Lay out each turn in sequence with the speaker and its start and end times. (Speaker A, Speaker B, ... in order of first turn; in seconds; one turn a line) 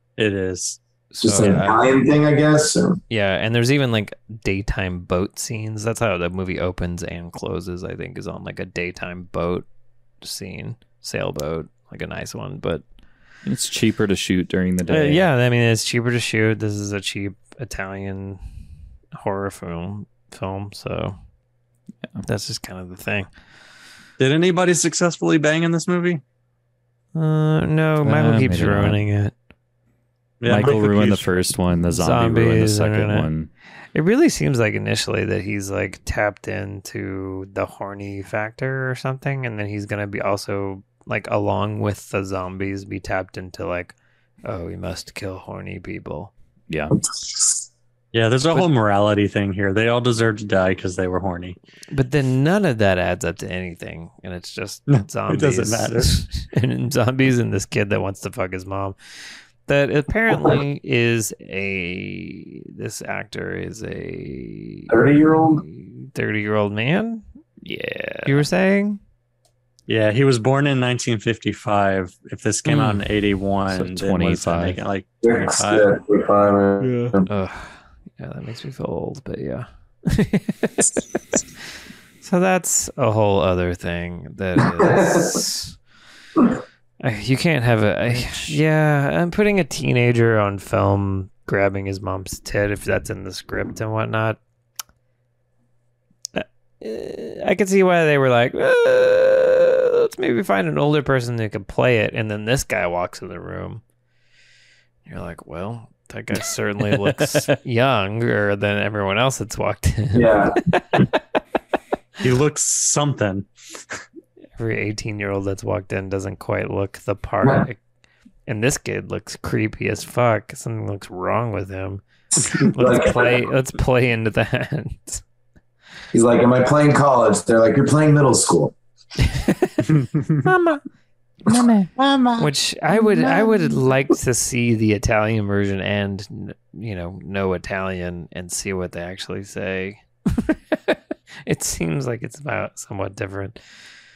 Speaker A: 0.2-0.8
Speaker B: 1.1-2.1
Speaker C: 1.2-3.0
Speaker B: 3.1-9.6
Speaker B: 10.2-12.8
Speaker D: 13.4-15.2
Speaker B: 14.9-18.4
Speaker B: 19.1-21.1
Speaker B: 22.2-23.3
Speaker A: 24.2-26.2
Speaker B: 27.1-29.3
Speaker D: 28.0-29.0
Speaker A: 30.4-31.5
Speaker D: 30.4-33.5
Speaker B: 31.9-33.3
Speaker B: 33.9-46.3
Speaker D: 46.7-46.9
Speaker C: 47.1-47.6
Speaker A: 48.1-51.6
Speaker B: 51.9-59.0
Speaker A: 54.9-56.1
Speaker B: 59.6-67.2
Speaker C: 64.9-65.6
Speaker D: 67.6-68.5
Speaker B: 68.2-69.0
Speaker A: 69.9-76.0
Speaker B: 72.7-73.0
Speaker D: 73.7-74.8
Speaker C: 75.2-77.3
Speaker B: 77.3-81.0
Speaker B: 82.2-85.8
Speaker C: 84.6-85.4
Speaker B: 87.0-94.4
Speaker B: 96.3-103.8
Speaker B: 105.1-111.1
Speaker C: 110.1-110.6
Speaker A: 112.2-113.5
Speaker B: 114.6-117.8
Speaker B: 118.5-125.2
Speaker C: 122.6-123.4
Speaker C: 126.1-128.7
Speaker B: 129.3-129.8
Speaker A: 130.0-130.3
Speaker B: 130.4-130.8
Speaker D: 131.5-131.9
Speaker C: 132.0-132.3
Speaker B: 132.4-143.6